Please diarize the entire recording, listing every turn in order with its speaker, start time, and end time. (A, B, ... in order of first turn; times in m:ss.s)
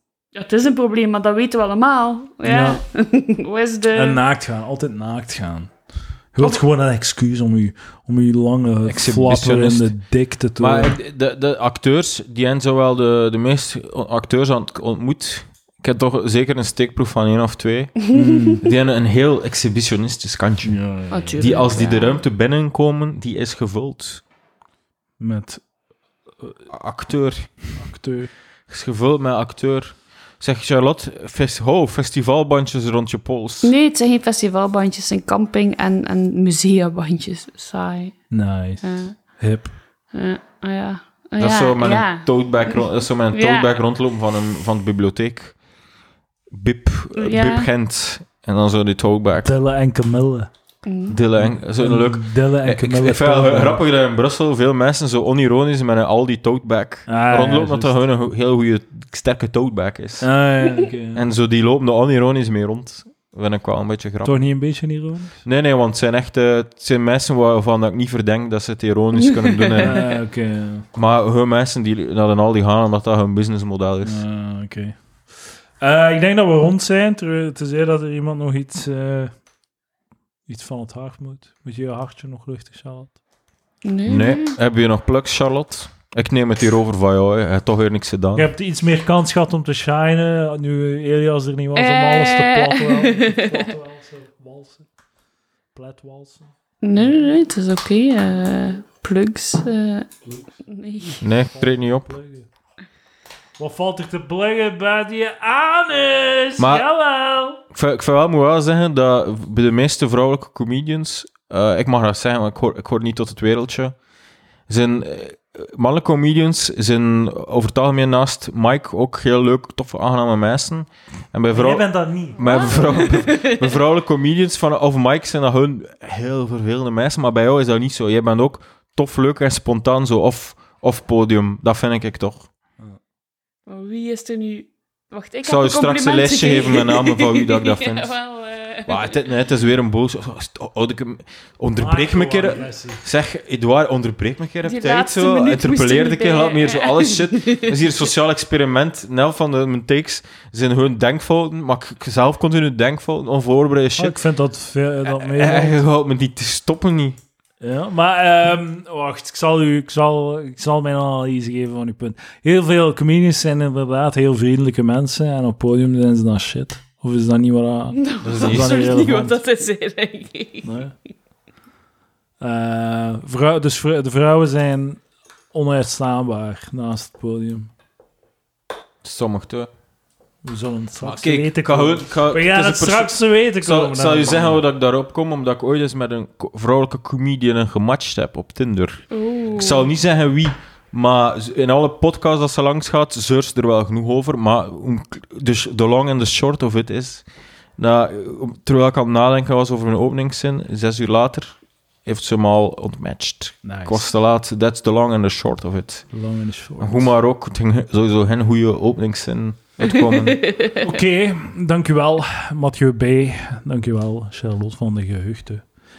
0:00.4-0:04.2 A
0:02.4-0:02.8 B
0:03.9-0:05.7 B
0:06.4-0:11.0 B
0:08.9-0:09.9 C
0:10.6-0:18.0 C
0:18.0-0:18.3 A
0:18.1-0:18.7 B
0:18.6-0:20.8 C
0:20.6-0:21.8 B
0:21.1-0:22.2 A
0:21.4-0:24.2 C
0:25.2-0:25.6 B
0:26.7-0:27.7 C
0:27.8-0:28.3 B
0:28.7-0:33.7 C
0:33.6-0:38.2 A
0:38.3-0:39.7 B
0:38.8-0:39.2 A
0:40.1-0:43.8 A
0:41.4-0:45.6 C
0:46.5-0:49.5 C
0:47.2-0:47.7 A
0:49.4-0:50.5 B
0:50.8-0:51.2 A
0:51.1-1:00.3 C
0:51.4-0:53.8 B
0:57.1-0:58.0 B
1:00.2-1:01.2 B
1:01.1-1:04.4 C
1:04.2-1:05.4 B
1:05.4-1:10.1 C
1:09.2-1:10.0 A
1:09.8-1:10.9 B
1:10.9-1:14.2 C
1:14.0-1:15.0 B
1:15.8-1:19.3 B
1:20.5-1:23.2 B
1:23.8-1:24.6 A
1:24.1-1:28.5 C
1:28.4-1:34.9 B
1:31.8-1:33.7 A
1:35.8-1:37.3 B
1:36.8-1:40.1 A
1:40.7-1:41.2 A
1:41.1-1:42.5 B
1:41.2-1:42.1 C
1:43.6-1:47.6 B
1:46.6-1:46.8 C
1:47.7-1:54.0 C
1:54.7-2:12.5 C
2:01.5-2:02.5 B
2:02.4-2:03.8 A
2:13.7-2:19.2 A
2:15.4-2:18.1 C
2:18.9-2:34.2 C
2:21.8-2:23.0 B
2:24.6-2:27.9 A
2:34.0-2:35.8 B
2:35.1-2:37.2 C
2:37.6-2:49.4 B
2:47.9-2:50.7 A
2:48.2-2:48.8 C
2:50.6-2:50.9 B
2:52.4-2:55.0 B
2:55.5-2:57.7 B
2:59.0-2:59.7 C
3:00.4-3:04.6 B
3:01.0-3:17.2 C
3:09.1-3:09.9 A
3:17.8-3:26.1 C
3:23.6-3:24.1 B
3:26.1-3:27.1 B
3:26.8-3:30.4 C
3:29.8-3:30.8 A
3:30.8-3:35.6 B